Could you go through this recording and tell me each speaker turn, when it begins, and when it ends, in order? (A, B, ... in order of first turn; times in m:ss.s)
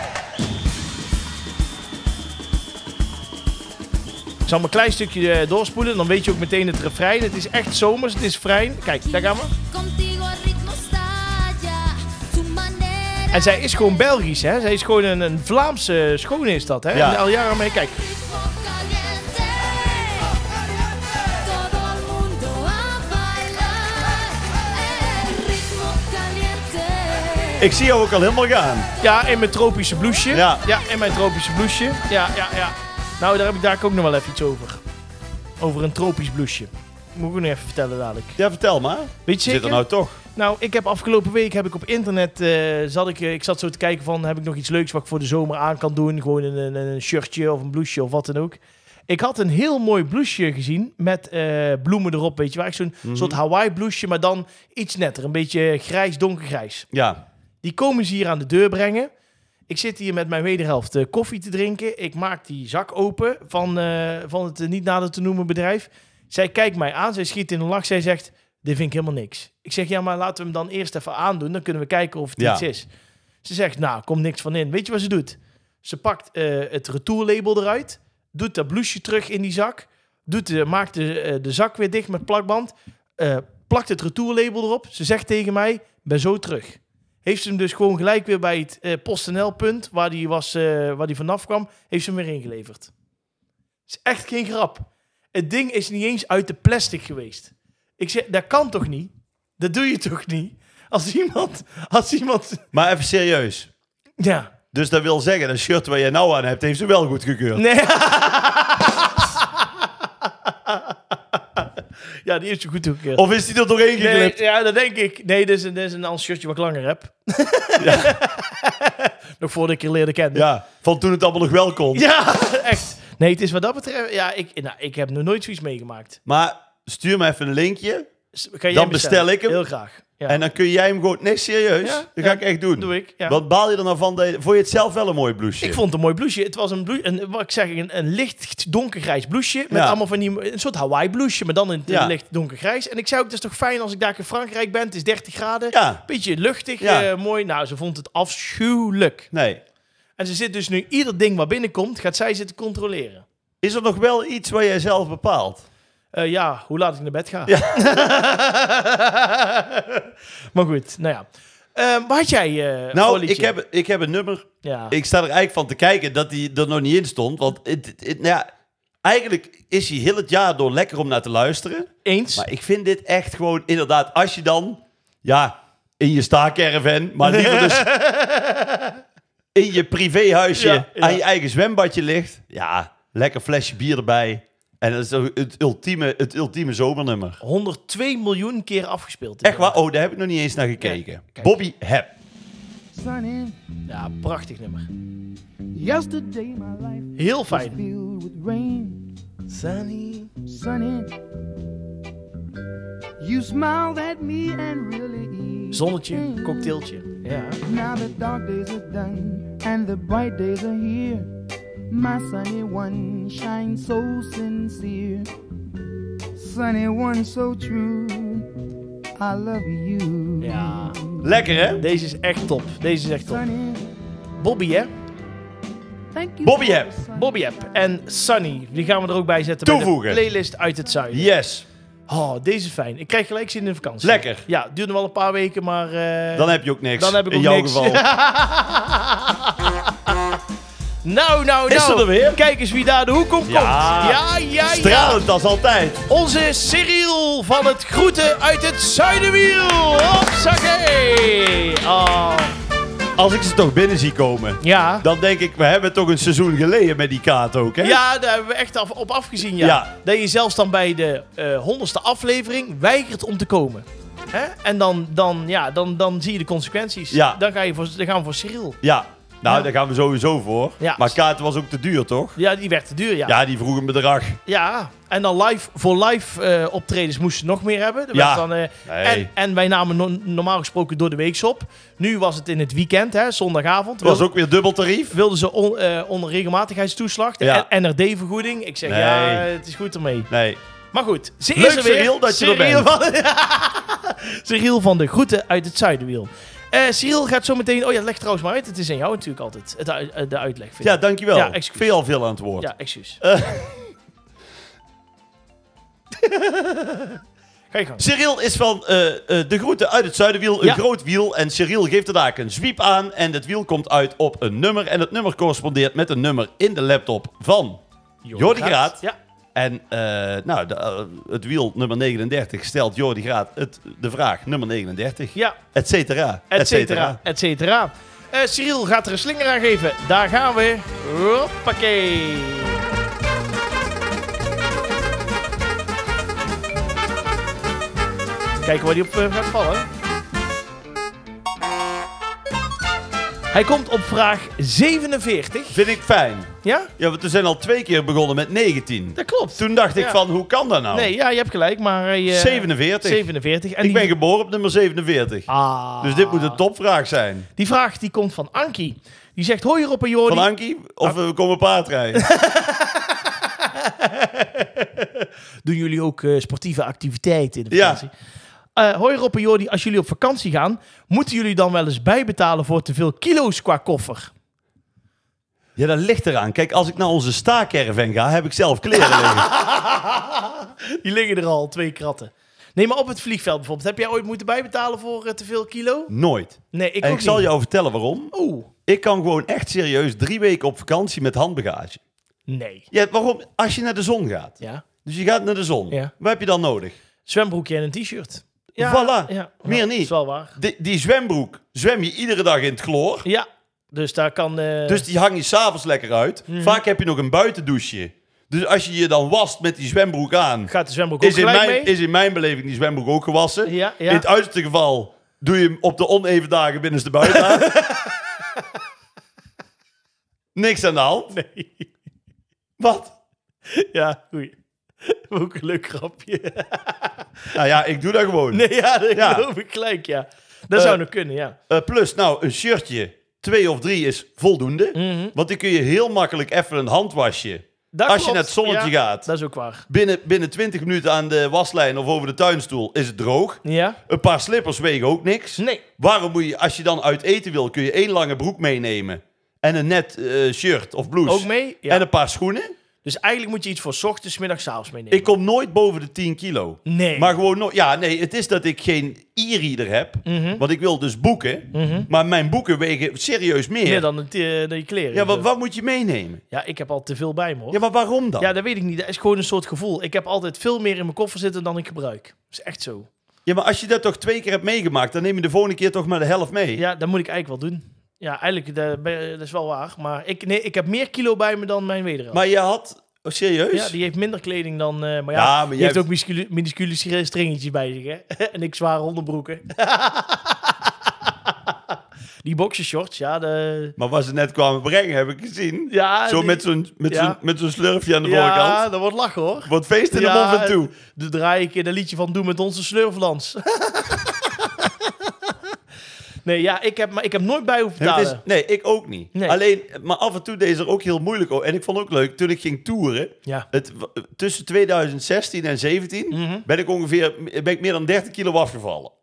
0:04.4-0:09.5 A
0:09.0-0:14.0 B
0:13.3-0:18.0 A
0:16.9-0:17.2 C
0:17.8-0:27.8 B
0:27.6-0:28.9 C
0:29.0-0:34.8 A
0:30.3-0:30.6 C
0:35.6-0:38.4 A
0:38.4-0:40.2 C
0:39.2-0:56.9 A
0:53.0-0:53.4 C
0:56.9-0:57.2 C
0:57.6-0:59.1 A
0:59.7-1:12.9 A
1:12.4-1:12.6 C
1:13.4-1:32.9 A
1:33.9-1:42.6 A
1:42.7-1:43.7 C
1:44.2-1:44.5 A
1:44.7-1:47.6 C
1:47.6-1:49.0 A
1:50.2-1:51.7 A
1:52.2-1:53.2 A
1:53.1-1:54.4 C
1:54.0-2:00.4 A
1:57.8-1:58.2 C
2:00.3-2:02.0 C
2:01.9-2:06.2 A
2:06.2-2:08.1 C
2:08.3-2:10.4 A
2:08.7-2:09.6 C
2:10.3-2:15.8 C
2:11.8-2:13.4 A
2:15.6-2:29.3 A
2:19.7-2:20.0 C
2:21.9-2:22.1 C
2:25.7-2:26.0 C
2:26.8-2:27.1 C
2:29.3-2:29.6 C
2:30.2-2:33.2 A
2:33.6-2:35.6 C
2:36.1-2:43.5 A
2:37.5-2:37.8 C
2:42.9-2:48.5 C
2:44.6-2:45.0 A
2:49.0-2:57.9 C
2:52.0-2:52.5 A
2:57.2-2:59.0 A
2:59.5-3:07.4 C
3:00.5-3:01.2 A
3:07.4-3:09.8 A
3:09.4-3:12.1 C
3:10.8-3:11.5 A
3:12.9-3:13.6 D
3:13.9-3:14.9 A
3:15.7-3:19.1 D
3:17.2-3:17.8 A
3:19.5-3:20.3 A
3:20.4-3:21.1 D
3:23.2-3:26.8 D
3:25.7-3:27.6 A
3:27.6-3:31.3 D
3:31.9-3:35.3 D
3:36.3-3:38.5 D
3:39.2-3:41.3 D
3:40.4-3:41.0 A
3:41.2-3:41.8 C
3:41.8-3:43.4 A
3:43.2-3:43.9 D
3:44.4-3:44.9 A
3:46.1-3:47.6 D
3:46.4-3:46.9 C
3:47.1-3:51.3 A
3:49.6-3:50.2 C
3:51.1-3:51.6 C
3:52.1-4:00.4 A
3:54.0-3:54.4 C
3:56.3-3:58.0 C
4:01.0-4:05.2 A
4:01.7-4:02.4 C
4:03.4-4:06.1 C
4:06.1-4:12.6 A
4:13.2-4:18.0 C
4:14.6-4:15.0 A
4:17.8-4:28.8 A
4:19.6-4:19.9 C
4:27.1-4:27.4 C
4:28.8-4:32.4 C
4:30.8-4:31.2 A
4:32.4-4:33.4 A
4:33.2-4:34.4 C
4:34.5-4:44.3 A
4:38.1-4:39.3 C
4:44.0-4:45.2 C
4:45.1-4:50.3 A
4:47.4-4:47.7 C
4:48.8-4:49.5 C
4:50.3-4:50.6 C
4:50.9-5:01.9 A
4:51.5-4:52.9 C
5:00.8-5:03.9 C
5:02.6-5:03.2 A
5:06.2-5:07.2 A
5:07.7-5:08.0 A
5:08.0-5:17.8 C
5:18.2-5:19.2 A
5:18.3-5:19.0 C
5:19.5-5:27.2 C
5:26.5-5:32.8 A
5:38.6-5:39.9 A
5:43.5-5:45.8 A
5:45.7-5:51.1 C
5:46.6-5:46.9 A
5:49.2-5:50.2 A
5:50.9-5:54.1 A
5:52.3-5:53.3 C
5:53.8-5:55.5 C
5:55.5-5:56.6 A
5:56.0-5:57.5 C
5:57.6-6:00.5 A
6:00.3-6:02.2 C
6:02.2-6:08.1 A
6:07.7-6:08.0 C
6:08.7-6:14.3 A
6:15.8-6:19.5 C
6:18.9-6:26.1 A
6:26.1-6:28.3 C
6:26.7-6:27.5 A
6:28.3-6:28.7 A
6:28.9-6:32.0 C
6:32.5-6:32.9 A
6:32.9-6:37.0 C
6:37.2-6:40.6 A
6:38.8-6:43.2 C
6:43.2-6:45.0 A
6:44.9-6:57.8 C
6:46.5-6:46.8 A
6:50.7-6:51.9 A
6:53.6-6:54.2 A
6:57.2-6:58.6 A
7:00.5-7:01.3 C
7:01.3-7:01.9 A
7:02.8-7:03.1 C
7:03.7-7:07.2 A
7:07.5-7:09.5 C
7:08.5-7:11.6 A
7:10.7-7:11.0 C
7:11.7-7:19.3 C
7:14.9-7:15.3 A
7:17.9-7:19.8 A
7:19.9-7:32.7 C
7:23.6-7:24.0 A
7:25.6-7:25.8 A
7:31.2-7:32.0 A
7:33.0-7:35.3 A
7:35.1-7:44.1 C
7:36.8-7:37.3 A
7:40.2-7:40.6 A
7:41.7-7:42.1 A
7:43.8-7:45.5 A
7:45.1-7:46.4 C
7:46.5-7:47.8 A
7:47.7-7:48.5 C
7:48.4-7:53.1 A
7:53.4-7:56.8 C
7:56.8-8:02.4 A
8:02.3-8:03.9 C
8:03.7-8:11.7 A
8:05.3-8:06.0 C
8:12.4-8:14.0 A
8:14.0-8:18.8 C
8:15.9-8:17.4 A
8:18.2-8:25.5 A
8:19.6-8:20.9 C
8:26.4-8:28.4 A
8:28.0-8:39.1 C
8:36.3-8:36.6 A